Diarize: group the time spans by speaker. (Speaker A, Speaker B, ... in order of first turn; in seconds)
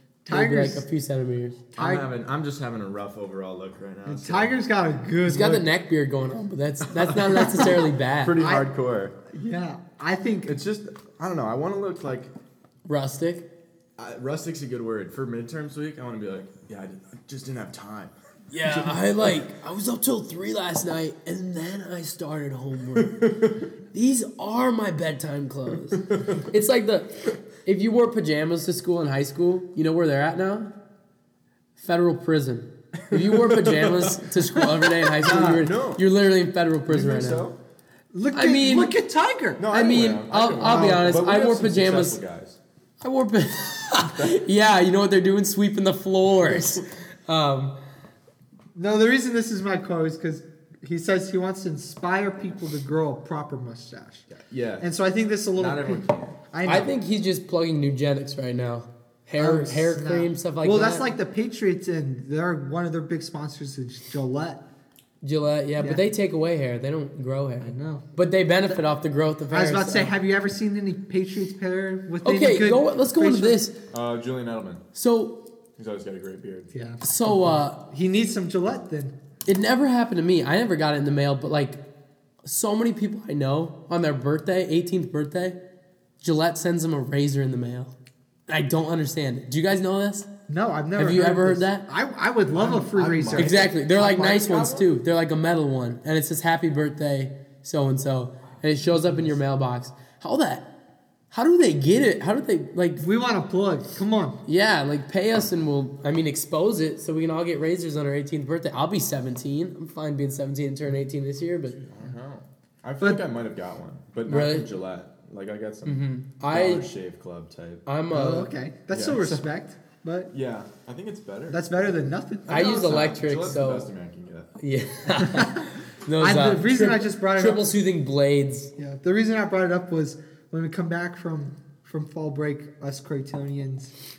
Speaker A: 0.2-0.9, 1.8-2.1, 4.0-5.7, 8.4-8.7, 9.3-10.6, 35.2-35.7, 38.1-41.4, 48.8-54.3, 54.8-56.9, 59.4-64.6, 67.6-68.0, 69.5-73.6, 76.7-79.1, 90.5-94.6, 103.0-104.4, 118.1-120.3, 121.5-123.0, 125.2-127.8, 128.8-133.9
Speaker B: 0.3-1.6, 5.3-8.4, 12.8-13.5, 18.5-23.3, 23.9-30.7, 31.8-37.5, 38.3-38.9, 40.0-42.2, 43.0-47.8, 56.6-61.1, 65.2-70.1, 72.2-73.8, 75.0-75.4, 77.0-77.8, 79.5-81.8, 82.5-85.6, 86.2-87.9, 88.5-90.3, 91.0-91.9, 93.3-100.7, 101.3-103.0, 104.5-111.8, 114.3-114.7, 115.8-116.9, 117.9-118.5, 122.5-123.9, 124.6-128.7
Speaker C: 1.8-4.6, 6.9-9.2, 10.5-12.3, 14.0-19.0, 23.0-23.5, 25.9-26.5, 33.1-36.0, 36.9-37.6, 39.6-42.6, 44.1-44.4, 46.4-46.7, 54.3-54.9, 55.6-56.4, 73.9-74.8, 75.8-76.7, 92.5-94.8, 111.8-117.9, 118.9-119.4, 120.3-121.6, 122.5-124.5